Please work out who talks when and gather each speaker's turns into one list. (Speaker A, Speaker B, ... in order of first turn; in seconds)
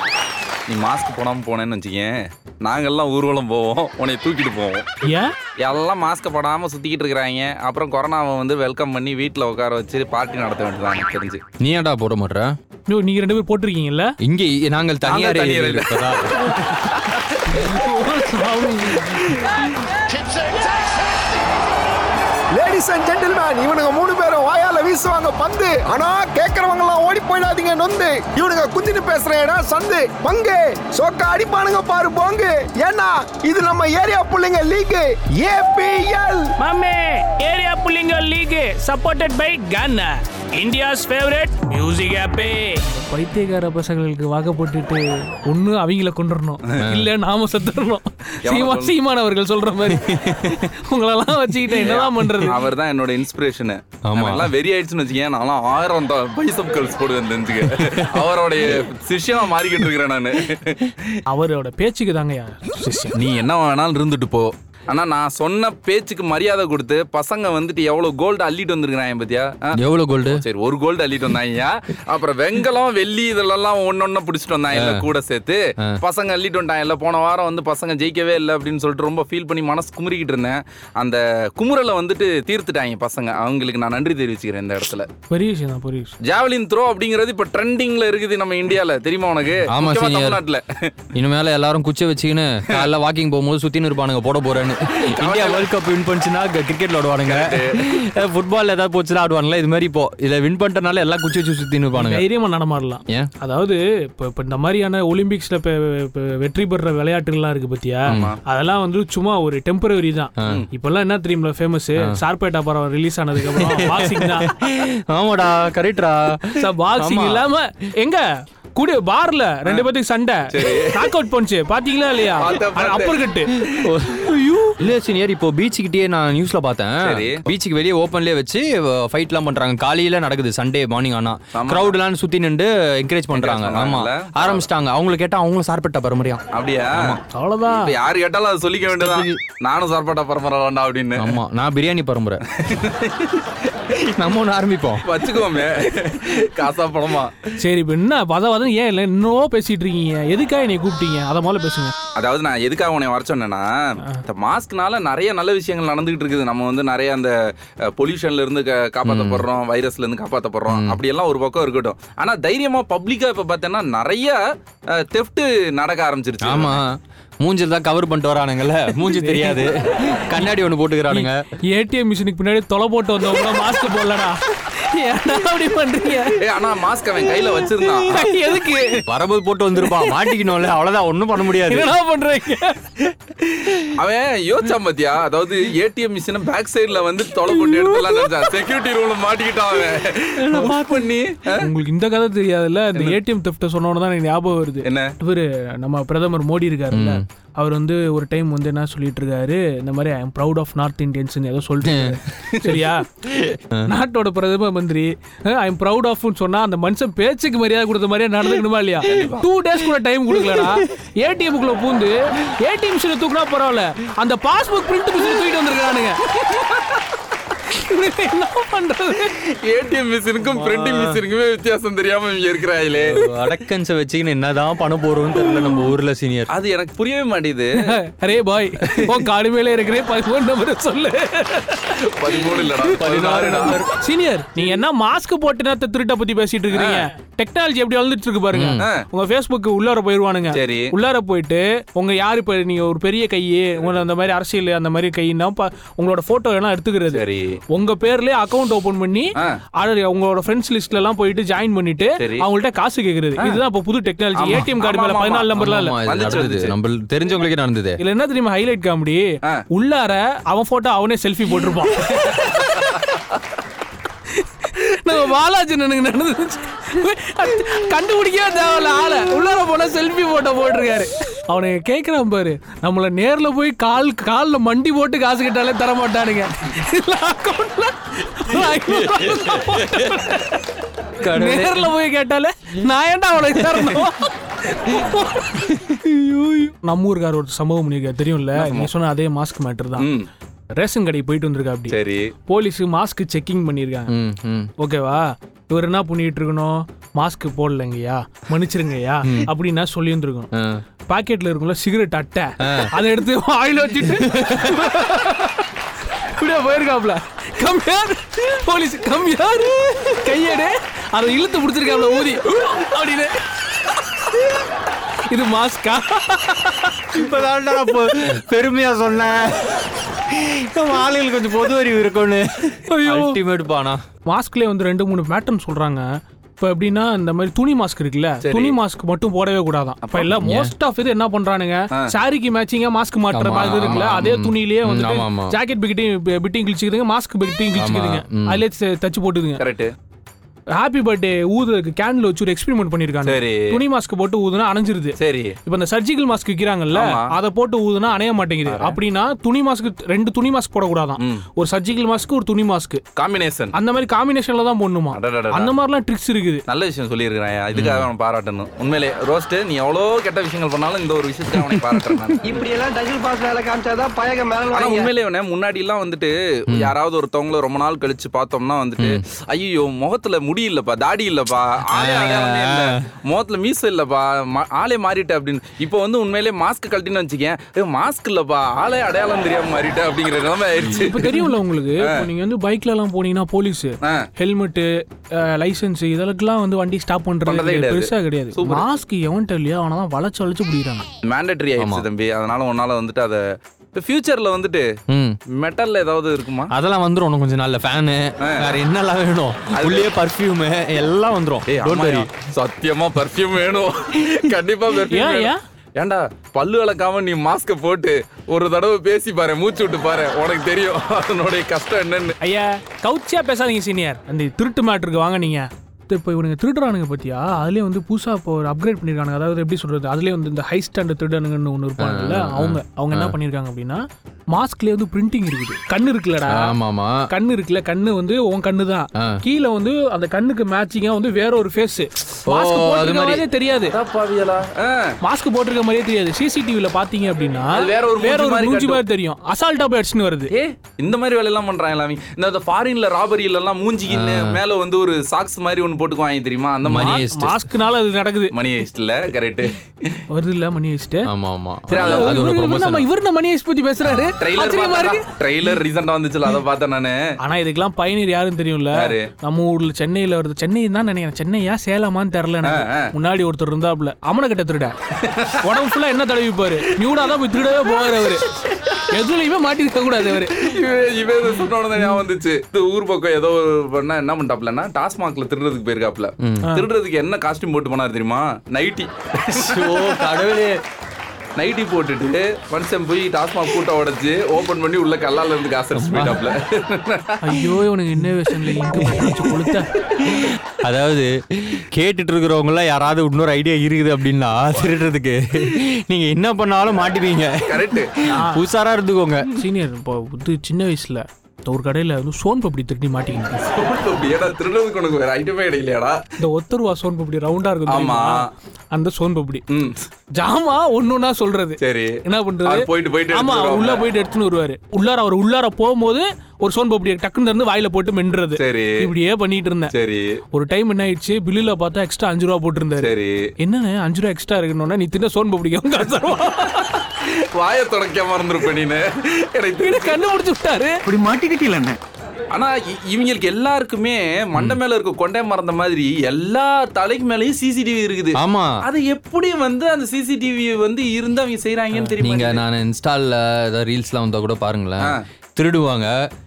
Speaker A: 0.7-4.8, 5.6-11.4, 15.0-17.3, 48.4-48.9, 51.8-60.9, 63.1-85.1, 86.2-90.9, 95.1-95.7, 97.2-97.8, 108.1-108.4, 120.5-121.1, 122.3-123.2, 127.0-127.5, 131.5-132.0, 133.3-134.7, 136.5-141.4, 142.6-143.4, 145.0-147.4, 152.2-153.7, 154.2-157.3, 157.9-164.4, 164.9-166.8, 176.4-178.2, 183.9-191.6, 194.8-195.1, 209.0-209.4, 219.4-223.2, 226.5-227.8, 232.0-233.8, 236.7-237.0, 238.8-239.0, 240.5-240.9, 247.1-247.6, 252.2-252.5, 254.3-256.7, 288.6-288.9, 290.0-290.2, 291.9-292.3, 328.4-328.8, 330.0-330.4, 339.6-339.9, 343.2-343.7, 345.2-345.6, 346.9-347.3, 348.6-349.0, 351.2-351.4, 353.2-353.7, 355.1-355.7, 356.7-362.4, 364.7-382.2, 387.4-388.8, 391.2-393.4, 393.9-394.9, 395.5-396.7, 398.4-398.7, 399.7-400.1, 401.7-412.4, 433.9-435.1, 437.7-439.0, 440.5-447.2, 448.5-450.2, 451.9-452.4, 454.4-457.2, 458.9-459.2, 462.6-463.1, 465.2-465.6, 470.3-480.5, 481.6-487.4, 497.7-498.4, 503.5-506.2, 507.9-508.5, 509.7-510.1, 511.8-514.1, 518.5-519.0, 519.9-520.4, 523.0-523.5, 527.2-530.2, 531.2-531.9, 532.5-542.6
Speaker B: 5.0-5.3, 12.9-14.1, 17.5-19.5, 36.6-52.5, 61.3-63.2, 85.3-86.1, 101.9-114.5, 116.6-123.5, 137.3-137.9, 147.6-151.9, 169.0-169.7, 171.1-176.4, 178.1-179.1, 179.8-180.4, 181.4-183.0, 187.9-188.2, 190.4-190.9, 191.5-203.1, 203.8-216.4, 217.7-219.3, 227.9-232.4, 233.1-256.0, 258.0-263.1, 264.4-280.6, 281.2-290.1, 290.8-294.1, 294.8-300.5, 301.1-314.6, 315.3-317.1, 322.9-323.4, 324.3-326.1, 326.6-339.6, 340.7-353.0, 353.7-356.6, 380.9-391.1, 405.1-405.6, 412.4-426.8, 427.3-433.9, 435.2-440.5, 447.0-448.5, 450.3-451.3, 451.9-455.2, 457.4-464.9, 465.6-468.4, 469.0-470.5, 487.4-489.9, 498.4-498.6, 499.5-503.5, 506.4-509.6, 510.3-519.9, 520.5-526.9, 529.8-531.0
Speaker C: 11.6-12.5, 14.2-16.7, 46.8-47.1, 49.9-50.6, 54.0-54.5, 69.7-70.4, 74.7-75.0, 89.7-90.4, 91.1-102.2, 113.5-117.4, 123.8-136.4, 138.9-139.3, 141.2-142.4, 144.2-145.0, 159.0-159.4, 160.7-161.0, 166.4-171.4, 179.1-181.9, 196.9-197.2, 201.8-202.2, 203.6-203.9, 210.5-210.8, 220.4-221.2, 222.9-226.5, 232.9-233.9, 238.5-238.8, 255.6-258.0, 278.6-280.2, 281.2-281.9, 283.5-284.0, 294.1-294.7, 299.2-299.5, 300.5-300.8, 302.6-302.9, 304.1-304.7, 317.1-324.0, 330.4-330.7, 333.3-335.6, 337.7-338.6, 357.7-358.1, 371.9-373.0, 391.8-392.1, 395.1-395.4, 396.7-402.3, 422.0-423.3, 426.5-427.2, 432.5-433.4, 444.1-444.6, 446.8-447.6, 451.3-453.1, 476.4-476.7, 479.5-480.8, 485.9-486.4, 489.0-489.3, 490.3-499.5, 538.3-538.8, 542.2-546.1
Speaker D: 20.2-20.6, 22.5-36.5
Speaker E: 362.5-365.1